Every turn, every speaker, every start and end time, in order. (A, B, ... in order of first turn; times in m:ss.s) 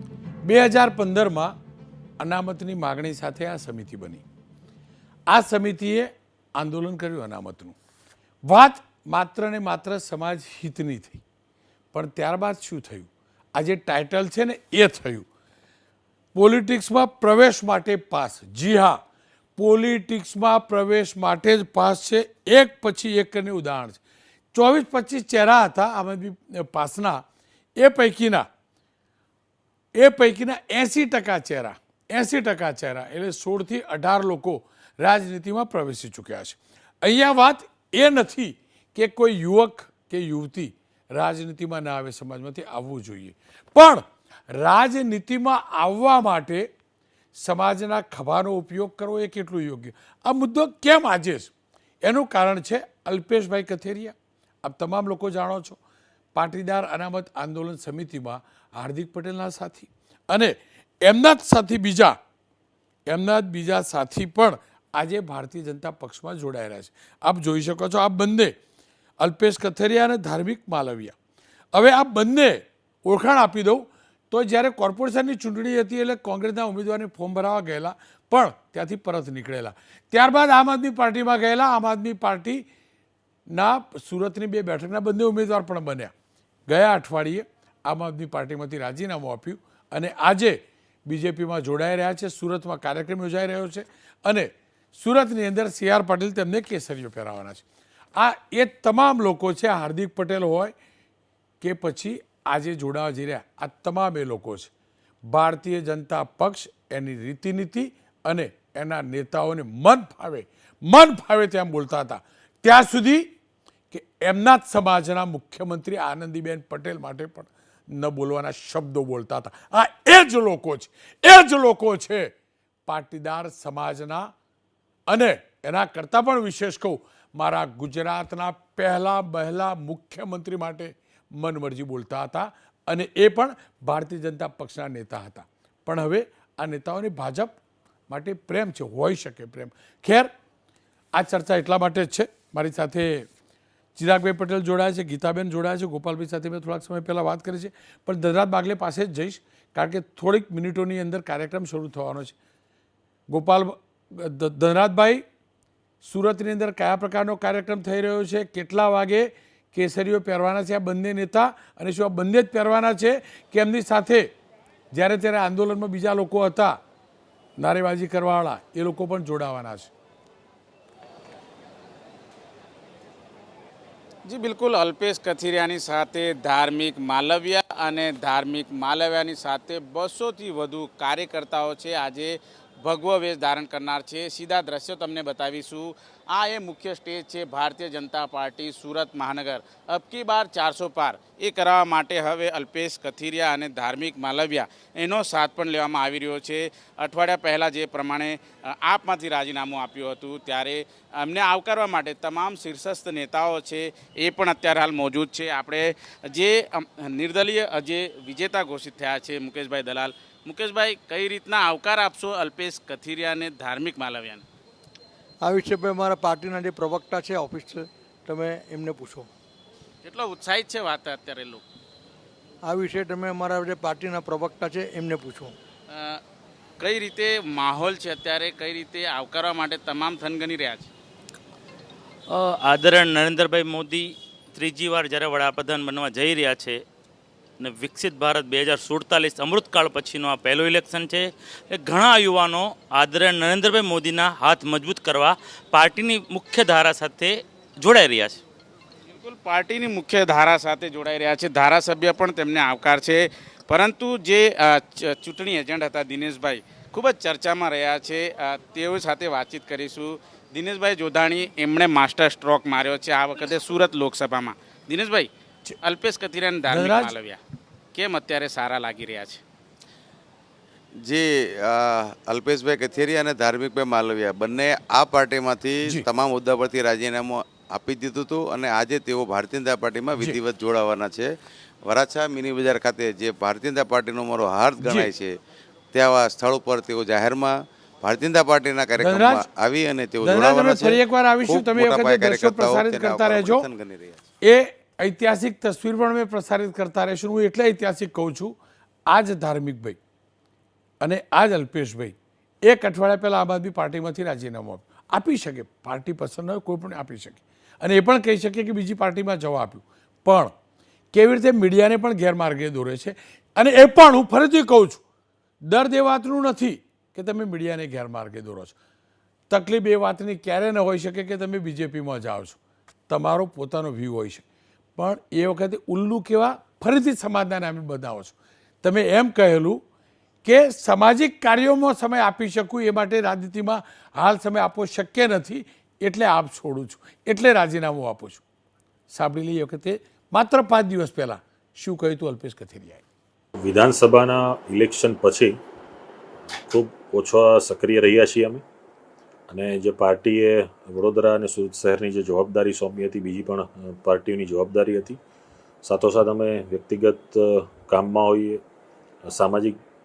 0:00.4-0:01.5 A
0:02.2-0:04.2 A
0:05.3-0:07.8 A
0:08.5-0:11.2 A
0:11.9-0:15.3 A
0:16.3-0:19.0 A
0:19.6-0:24.0 A
0:24.5-0:27.2 A
0:27.8-0:28.4 A
0:30.0-0:46.7 A
0:47.3-0:51.5 A
0:52.0-0:55.8 A
0:56.3-1:02.2 A
1:03.1-1:08.5 A
1:09.2-1:11.1 A
1:11.7-1:22.6 A
1:23.5-1:26.1 A
1:26.7-1:37.6 A
1:38.2-1:40.7 A
1:41.6-1:44.7 A
1:45.3-1:53.3 A
1:53.9-2:02.3 A
2:02.8-2:04.3 A
2:05.1-2:17.6 A
2:18.1-2:20.3 A
2:21.1-2:23.3 A
2:24.0-2:32.3 A
2:33.3-2:35.2 A
2:36.0-2:44.3 A
2:44.9-2:46.8 A
2:47.6-2:49.9 A
2:54.2-3:34.4 B
3:35.4-3:39.3 C
3:40.0-3:41.6 B
3:42.7-3:45.5 C
3:45.9-3:46.2 B
3:46.8-3:50.9 B
3:52.3-3:56.8 D
3:57.6-4:08.4 D
4:09.1-4:25.3 B
4:25.8-4:27.4 B
4:26.7-4:27.1 A
4:27.9-4:29.4 B
4:31.0-4:41.3 E
4:41.9-4:45.3 E
4:44.8-4:45.1 A
4:45.9-4:54.3 E
4:49.0-4:49.4 A
4:50.2-4:53.6 A
4:54.4-4:58.5 A
4:59.1-5:00.0 A
5:01.0-5:10.5 A
5:11.1-5:15.0 A
5:15.6-5:18.8 A
5:19.5-5:22.6 A
5:23.1-5:24.4 A
5:25.0-5:29.8 A
5:30.4-5:38.4 A
5:39.1-5:43.0 A
5:43.6-5:45.6 F
5:46.7-5:48.6 F
5:49.5-5:55.2 F
5:55.8-5:58.6 F
5:59.2-5:59.8 F